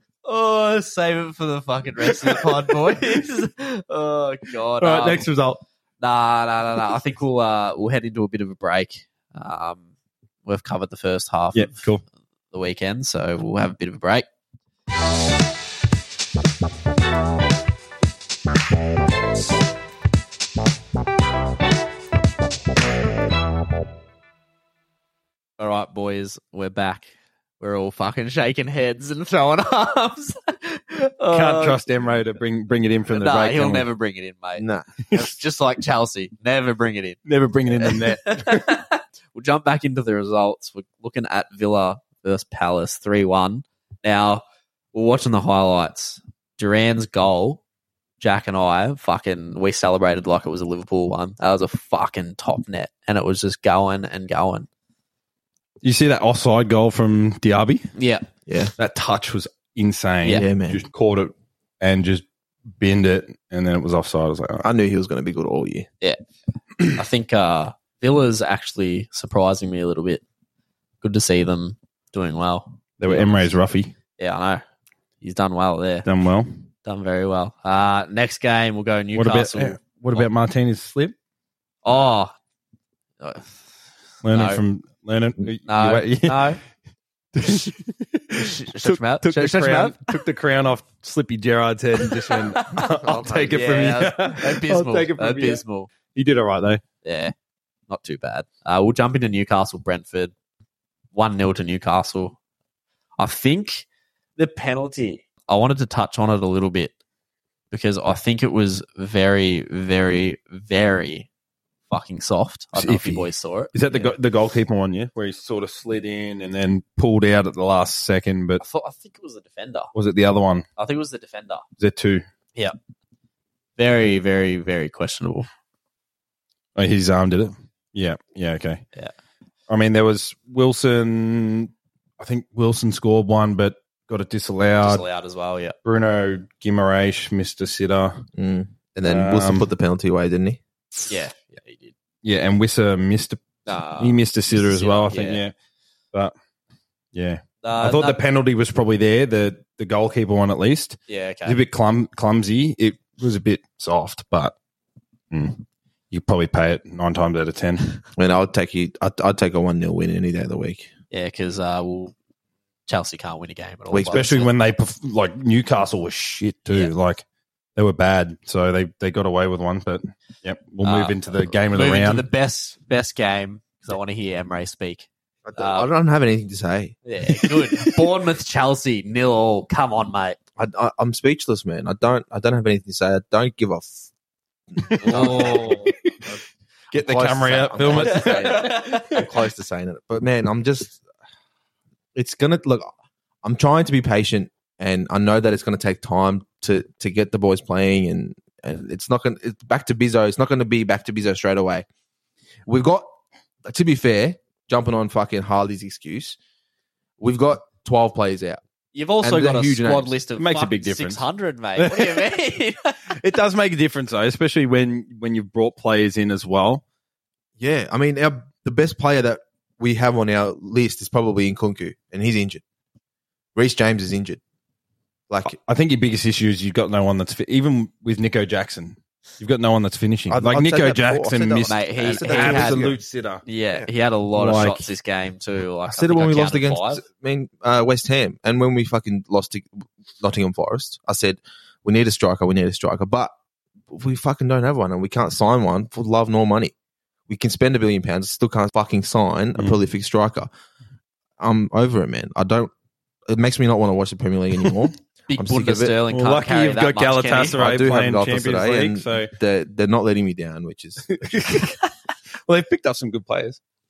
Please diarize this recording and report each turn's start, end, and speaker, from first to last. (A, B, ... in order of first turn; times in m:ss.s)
0:00.2-0:05.2 A
0:02.0-0:02.8 B
0:04.8-0:05.6 B
0:06.0-0:09.8 A
0:10.4-0:11.9 A
0:11.5-0:12.0 B
0:12.5-0:14.2 A
0:25.6-0:31.8 A
0:31.3-0:33.9 B
0:33.1-0:37.2 A
0:34.6-0:34.9 C
0:35.0-0:35.3 B
0:37.2-0:38.7 B
0:37.7-0:44.4 A
0:44.9-0:47.6 A
0:48.2-0:54.7 A
0:55.8-0:57.9 B
0:57.9-0:58.2 A
0:58.5-0:58.7 C
0:58.8-1:02.2 B
1:00.3-1:00.8 C
1:02.8-1:04.7 B
1:04.6-1:05.9 C
1:06.9-1:10.2 A
1:11.0-1:13.5 A
1:13.0-1:13.9 B
1:14.2-1:14.6 A
1:15.2-1:16.1 A
1:16.0-1:16.6 B
1:16.8-1:20.3 A
1:19.2-1:21.1 B
1:21.8-1:22.3 A
1:23.2-1:23.5 A
1:24.2-1:26.5 B
1:24.3-1:24.6 A
1:25.6-1:26.6 A
1:27.3-1:35.6 B
1:28.3-1:30.2 A
1:32.0-1:32.9 A
1:32.8-1:33.6 C
1:33.5-1:35.9 A
1:36.1-1:36.8 B
1:37.0-1:37.3 A
1:37.9-1:40.3 A
1:41.1-1:42.4 A
1:43.2-1:46.9 A
1:47.7-1:51.3 A
1:51.9-1:54.1 A
1:52.7-1:58.6 B
1:58.6-1:59.9 A
1:59.9-2:00.6 B
2:00.8-2:01.6 A
2:01.8-2:02.2 B
2:03.8-2:05.5 A
2:06.8-2:08.8 B
2:09.7-2:15.0 B
2:14.8-2:15.7 A
2:15.8-2:18.3 B
2:18.3-2:20.6 C
2:19.0-2:19.6 B
2:21.1-2:21.9 A
2:22.2-2:23.4 B
2:23.6-2:25.4 A
2:24.0-2:25.5 B
2:27.1-2:34.5 B
2:27.6-2:28.2 A
2:31.1-2:31.6 A
2:35.3-2:37.9 B
2:38.1-2:40.9 C
2:41.1-2:42.1 A
2:42.9-2:44.5 A
2:43.9-2:44.2 C
2:44.0-2:47.2 B
2:47.8-2:52.2 B
2:50.8-2:55.9 A
2:55.4-2:57.5 C
2:57.0-3:00.4 A
3:00.6-3:04.1 C
3:04.8-3:05.6 C
3:04.8-3:06.1 B
3:05.0-3:05.9 A
3:06.9-3:09.3 B
3:06.9-3:11.0 C
3:07.8-3:09.2 A
3:12.1-3:12.9 C
3:13.4-3:21.8 C
3:22.6-3:23.0 C
3:23.6-3:26.4 C
3:27.2-3:28.6 C
3:28.9-3:33.2 A
3:29.2-3:30.1 C
3:30.4-3:31.2 B
3:31.8-3:32.3 B
3:33.1-3:36.8 B
3:37.6-3:42.6 C
3:43.6-3:44.4 C
3:45.3-3:45.6 C
3:45.5-3:53.4 B
3:50.3-3:53.0 C
3:51.7-3:52.9 A
3:53.4-3:57.0 A
3:54.3-3:54.9 B
3:55.9-4:03.3 C
4:03.9-4:06.7 C
4:07.3-4:10.5 C
4:11.4-4:12.7 C
4:13.3-4:16.0 C
4:15.3-4:17.6 A
4:16.1-4:19.3 B
4:17.6-4:21.6 C
4:21.1-4:21.8 B
4:22.5-4:23.6 B